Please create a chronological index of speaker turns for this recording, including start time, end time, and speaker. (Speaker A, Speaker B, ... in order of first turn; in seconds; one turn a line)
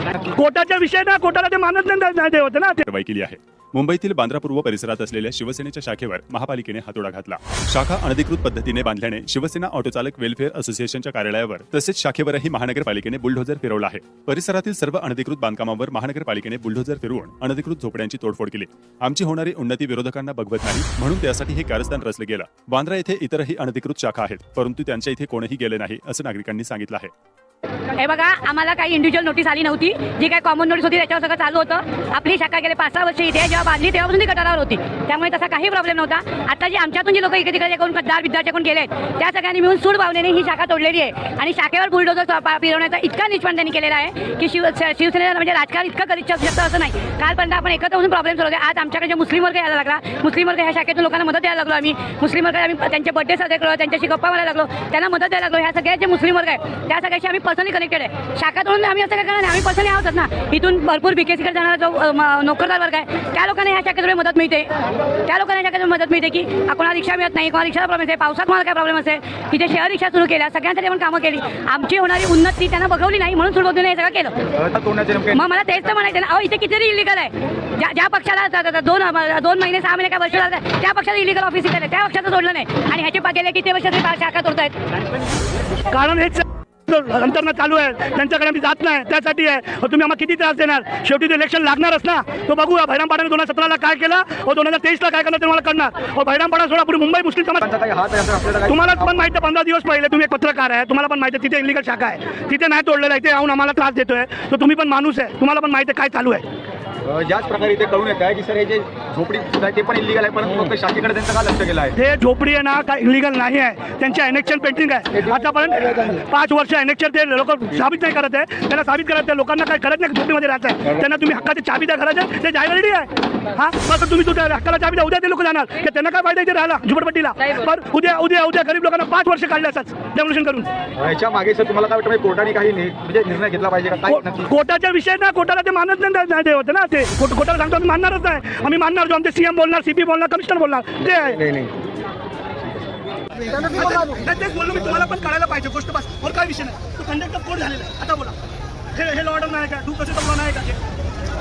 Speaker A: 0.3-2.8
Speaker B: 2.9-27.1
Speaker C: 28.0-64.7
Speaker C: 65.2-74.3
Speaker D: 74.6-75.4
Speaker C: 75.3-84.7
Speaker A: 85.9-97.6
Speaker D: 97.6-99.1
Speaker A: 98.7-106.4
Speaker D: 107.0-111.9
Speaker A: 112.0-130.7
Speaker D: 131.0-134.5
Speaker A: 134.1-141.5
Speaker D: 141.4-141.7
Speaker A: 143.5-148.4
Speaker A: 148.9-150.8